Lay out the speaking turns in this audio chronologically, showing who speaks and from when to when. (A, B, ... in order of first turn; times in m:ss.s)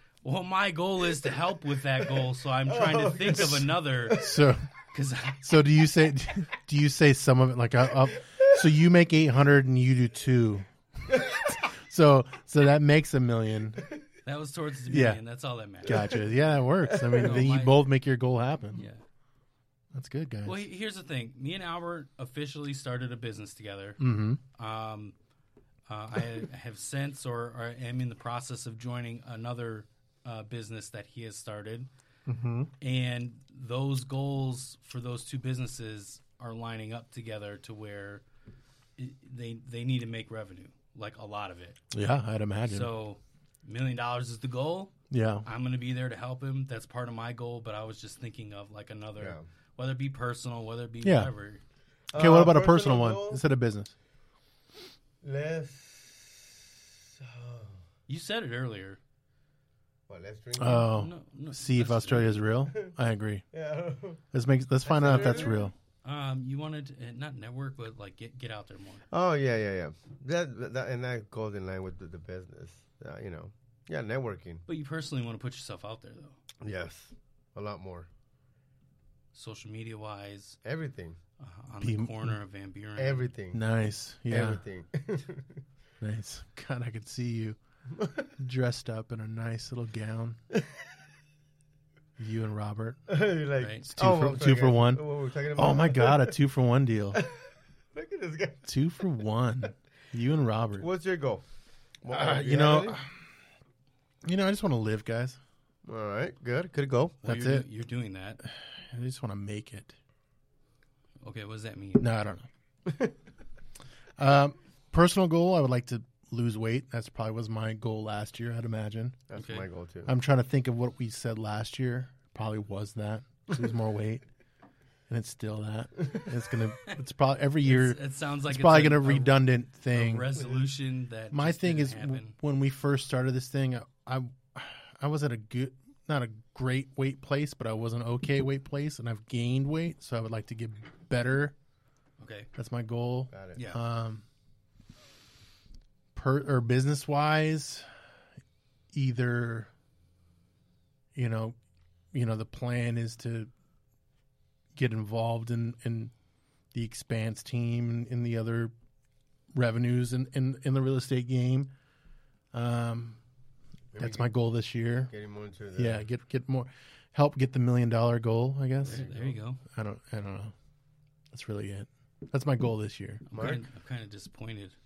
0:00.2-0:04.2 A
0:02.7-0:04.4 B
0:04.1-0:04.7 C
0:04.9-0:05.4 A
0:05.4-0:13.8 C
0:14.2-0:16.1 A
0:14.9-0:15.2 C
0:15.8-0:18.8 C
0:16.9-0:17.4 B
0:17.2-0:17.8 A
0:18.7-0:19.0 A
0:19.9-0:20.6 C
0:20.4-0:24.0 A
0:24.0-0:24.4 C
0:24.6-0:25.2 A
0:25.9-0:31.9 A
0:32.3-0:32.7 C
0:32.8-0:38.2 A
0:39.0-0:41.8 A
0:41.9-0:42.9 C
0:42.7-0:44.9 A
0:45.1-0:45.5 C
0:45.4-0:51.6 A
0:49.2-0:49.4 B
0:51.0-0:51.3 C
0:52.1-0:53.4 B
0:52.2-0:53.9 C
0:55.2-0:57.8 B
0:58.1-0:59.0 A
1:00.1-1:00.9 B
1:00.6-1:03.4 C
1:00.8-1:02.4 A
1:02.7-1:02.9 B
1:03.5-1:04.2 B
1:04.3-1:05.7 C
1:04.8-1:05.7 B
1:06.0-1:09.0 A
1:09.1-1:14.6 B
1:14.7-1:16.4 A
1:16.6-1:18.1 B
1:19.3-1:20.6 A
1:20.6-1:21.2 B
1:21.4-1:23.3 A
1:21.8-1:22.4 C
1:23.0-1:23.6 B
1:23.5-1:24.6 C
1:24.3-1:25.6 B
1:26.0-1:27.6 C
1:28.0-1:28.3 B
1:28.4-1:30.4 C
1:32.2-1:33.0 C
1:33.1-1:36.4 B
1:33.6-1:33.9 A
1:33.9-1:35.0 C
1:35.6-1:37.2 C
1:37.1-1:38.7 B
1:38.6-1:40.9 C
1:40.8-1:41.4 B
1:42.0-1:43.0 B
1:42.1-1:43.1 C
1:44.2-1:45.4 C
1:45.8-1:47.2 B
1:47.2-1:48.4 A
1:47.2-1:47.7 C
1:48.4-1:50.0 C
1:51.2-1:52.1 A
1:52.0-1:52.5 C
1:52.9-1:53.1 B
1:54.2-1:59.2 C
1:59.3-2:00.1 B
1:59.4-1:59.7 A
2:00.1-2:04.2 C
2:05.1-2:10.4 C
2:07.6-2:12.3 A
2:11.3-2:21.6 C
2:22.2-2:22.5 A
2:22.6-2:24.2 C
2:23.3-2:23.6 B
2:23.6-2:23.8 A
2:26.2-2:27.9 C
2:28.9-2:29.7 C
2:31.2-2:31.6 C
2:32.1-2:33.5 C
2:34.8-2:36.1 C
2:36.7-2:38.7 C
2:39.5-2:41.7 C
2:42.5-2:43.2 C
2:43.9-2:44.3 B
2:44.0-2:45.1 C
2:45.1-2:46.0 B
2:45.8-2:49.1 C
2:48.8-2:49.6 A
2:48.9-2:49.3 B
2:49.7-2:50.5 C
2:51.3-2:53.6 C
2:53.3-2:54.8 A
2:53.3-2:53.6 B